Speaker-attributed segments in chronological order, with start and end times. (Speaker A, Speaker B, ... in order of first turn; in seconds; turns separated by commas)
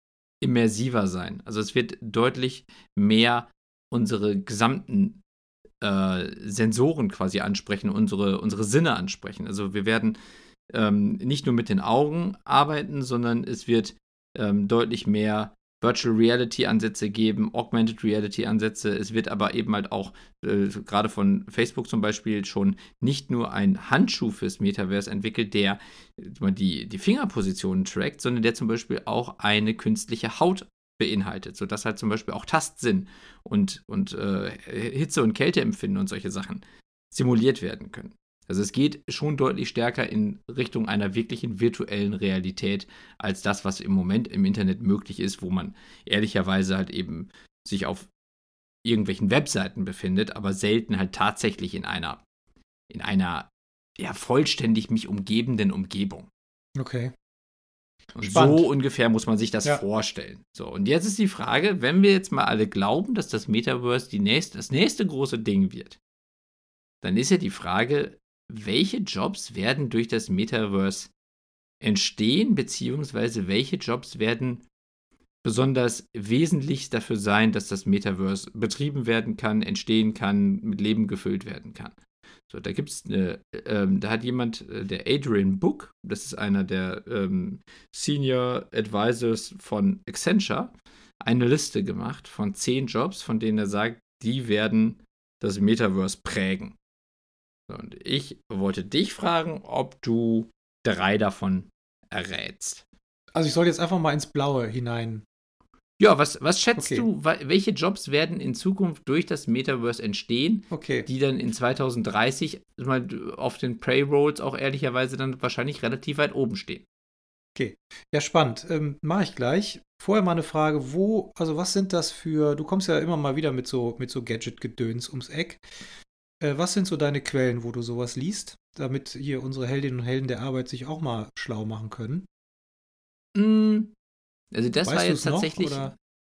Speaker A: 0.4-5.2, Speaker A: 5.8-10.2, Speaker A: 10.7-48.1, Speaker A: 48.8-52.2, Speaker A: 52.9-56.3, Speaker B: 56.8-57.1, Speaker A: 58.1-66.0, Speaker B: 58.2-58.7, Speaker A: 67.0-71.1, Speaker A: 71.8-74.6, Speaker A: 75.4-81.9, Speaker A: 82.5-90.7, Speaker A: 91.2-96.8, Speaker A: 97.7-102.8, Speaker B: 103.3-105.2, Speaker A: 106.0-116.8, Speaker B: 106.8-107.0, Speaker B: 110.7-111.1, Speaker B: 117.5-125.6, Speaker B: 126.4-132.2, Speaker A: 133.3-133.9, Speaker A: 134.5-135.9, Speaker B: 134.8-135.9